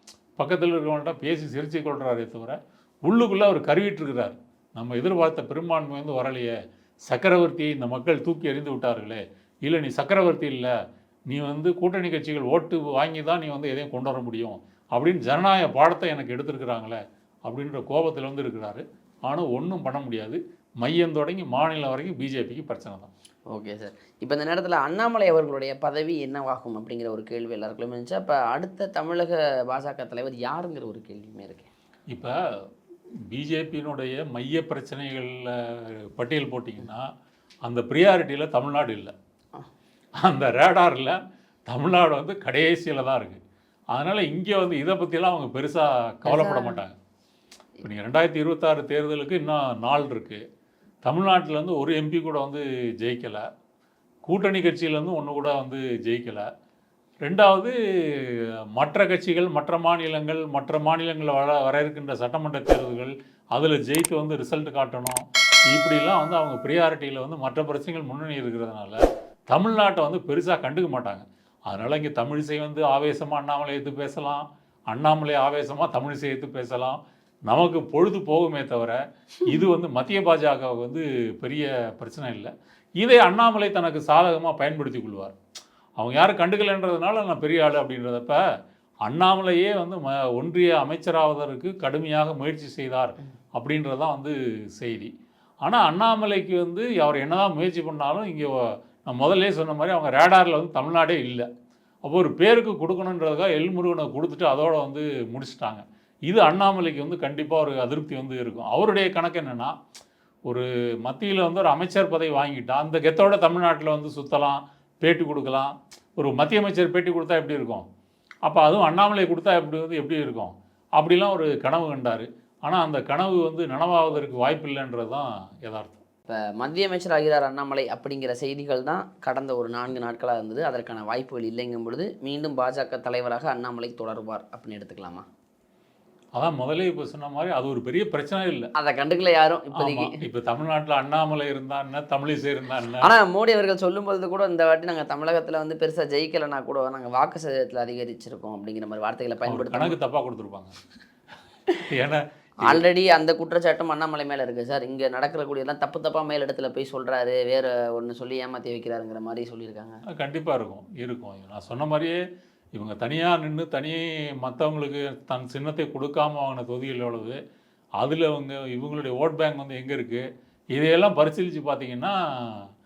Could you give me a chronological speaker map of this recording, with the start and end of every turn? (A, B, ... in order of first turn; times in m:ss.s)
0:00.4-0:06.5 A
0:07.1-0:10.7 A
0:11.3-0:23.1 A
0:23.5-0:31.7 B
0:33.3-0:37.1 A
0:37.6-0:39.1 A
0:40.2-0:43.4 A
0:43.9-0:46.9 A
0:46.2-0:46.8 B
0:47.8-0:50.4 A
0:51.0-0:53.4 A
0:54.2-0:56.4 A
0:57.2-1:25.4 A
1:26.0-1:28.4 A
1:29.0-1:35.1 A
1:35.6-1:41.5 A
1:42.0-1:49.7 A
1:50.5-1:57.8 A
1:58.4-2:06.0 A
2:06.3-2:15.2 B
2:16.4-2:18.7 A
2:18.7-2:20.2 B
2:19.8-2:23.1 A
2:23.0-2:30.0 B
2:29.5-2:30.7 A
2:31.9-2:32.8 A
2:32.6-2:40.0 B
2:40.2-2:42.2 A
2:42.7-2:47.4 A
2:48.0-2:52.7 A